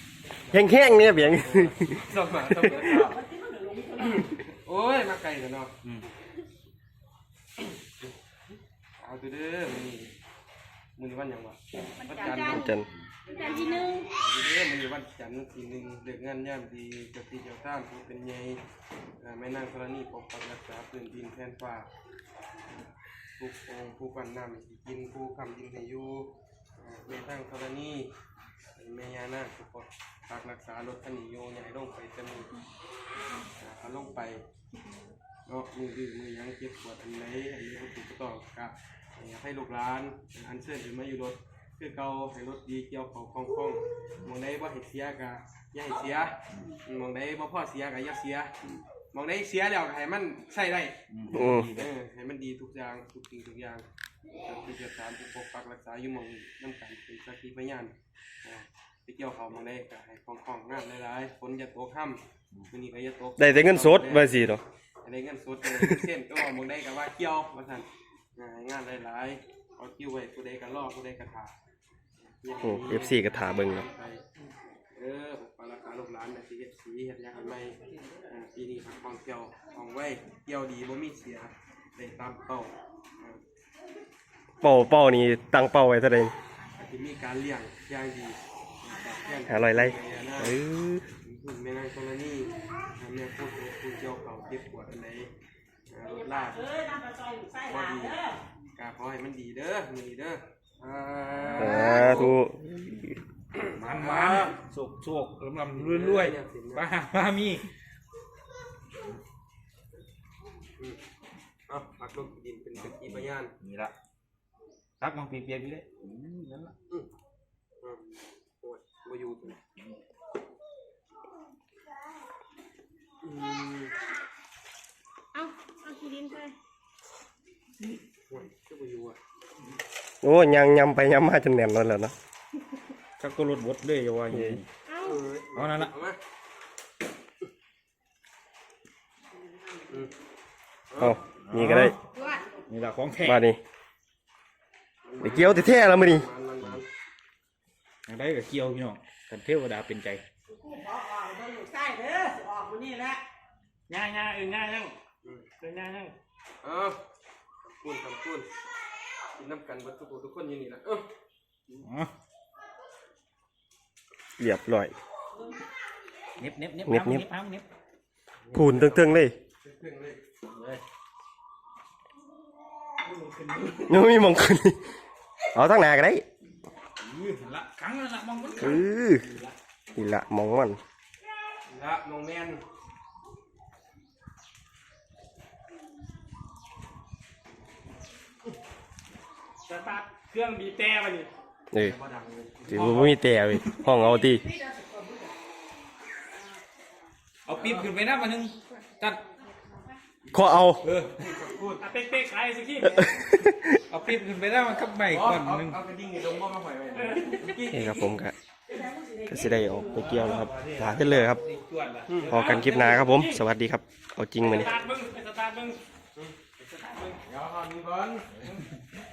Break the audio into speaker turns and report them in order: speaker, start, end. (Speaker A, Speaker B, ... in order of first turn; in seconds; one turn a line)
Speaker A: 0.5-2.0
Speaker B: 1.3-3.2
Speaker C: 2.9-4.2
Speaker B: 4.0-5.7
Speaker B: 9.0-10.1
Speaker B: 11.0-12.7
Speaker D: 11.9-12.7
Speaker A: 12.5-12.9
Speaker D: 13.3-14.1
Speaker C: 13.3-14.0
Speaker B: 14.1-18.6
Speaker B: 19.2-21.9
Speaker B: 23.4-28.1
Speaker B: 28.8-32.5
Speaker B: 33.6-34.4
Speaker B: 35.5-48.6
Speaker B: 49.1-51.0
Speaker E: 51.1-51.9
Speaker A: 51.3-51.7
Speaker B: 51.7-53.8
Speaker B: 54.4-71.5
Speaker A: 63.4-64.6
Speaker B: 72.4-74.2
Speaker A: 72.6-73.8
Speaker B: 74.9-83.4
Speaker A: 84.6-86.3
Speaker B: 86.8-90.5
Speaker A: 89.5-91.0
Speaker B: 91.2-95.3
Speaker B: 95.9-96.7
Speaker C: 96.1-98.4
Speaker B: 97.7-98.2
Speaker B: 98.7-102.3
Speaker A: 101.6-103.1
Speaker B: 103.5-104.5
Speaker E: 103.8-107.7
Speaker B: 105.7-106.9
Speaker B: 111.7-113.5
Speaker E: 112.7-113.9
Speaker E: 115.0-116.7
Speaker B: 117.8-119.6
Speaker B: 123.2-123.9
Speaker D: 125.3-126.5
Speaker B: 128.3-129.2
Speaker A: 130.2-132.1
Speaker E: 133.2-134.7
Speaker A: 134.3-134.6
Speaker D: 134.9-135.2
Speaker B: 135.0-136.2
Speaker E: 135.5-135.9
Speaker B: 140.9-141.2
Speaker A: 141.0-141.9
Speaker E: 141.4-142.0
Speaker D: 142.1-142.4
Speaker E: 142.7-143.4
Speaker A: 143.2-143.6
Speaker B: 145.0-146.8
Speaker A: 145.2-146.2
Speaker E: 148.1-150.2
Speaker C: 150.5-153.2
Speaker F: 153.9-154.9
Speaker F: 155.6-156.1
Speaker B: 156.6-157.0
Speaker B: 157.6-158.5
Speaker B: 159.4-161.0
Speaker E: 161.8-162.1
Speaker A: 164.4-164.9
Speaker E: 166.4-167.6
Speaker A: 166.8-167.2
Speaker B: 168.5-170.2
Speaker A: 168.5-169.3
Speaker E: 170.5-170.8
Speaker F: 173.2-173.7
Speaker A: 173.9-174.8
Speaker A: 175.5-176.2
Speaker E: 177.0-178.9
Speaker A: 178.6-179.2
Speaker A: 179.9-180.8
Speaker B: 181.7-182.6
Speaker F: 189.7-191.3
Speaker B: 191.8-193.0
Speaker A: 192.7-194.4
Speaker E: 192.7-193.8
Speaker C: 194.3-195.3
Speaker E: 197.4-199.2
Speaker B: 197.5-197.9
Speaker D: 199.3-199.9
Speaker B: 200.2-201.8
Speaker A: 200.3-200.8
Speaker E: 200.8-201.1
Speaker F: 201.8-203.1
Speaker A: 202.9-203.8
Speaker E: 203.9-205.8
Speaker B: 205.1-208.1
Speaker F: 206.9-207.5
Speaker A: 207.7-208.3
Speaker C: 208.7-209.7
Speaker A: 209.3-211.4
Speaker E: 209.9-213.0
Speaker A: 212.3-214.7
Speaker F: 212.3-213.4
Speaker F: 214.4-215.8
Speaker E: 216.6-217.2
Speaker B: 217.2-218.5
Speaker E: 218.3-218.7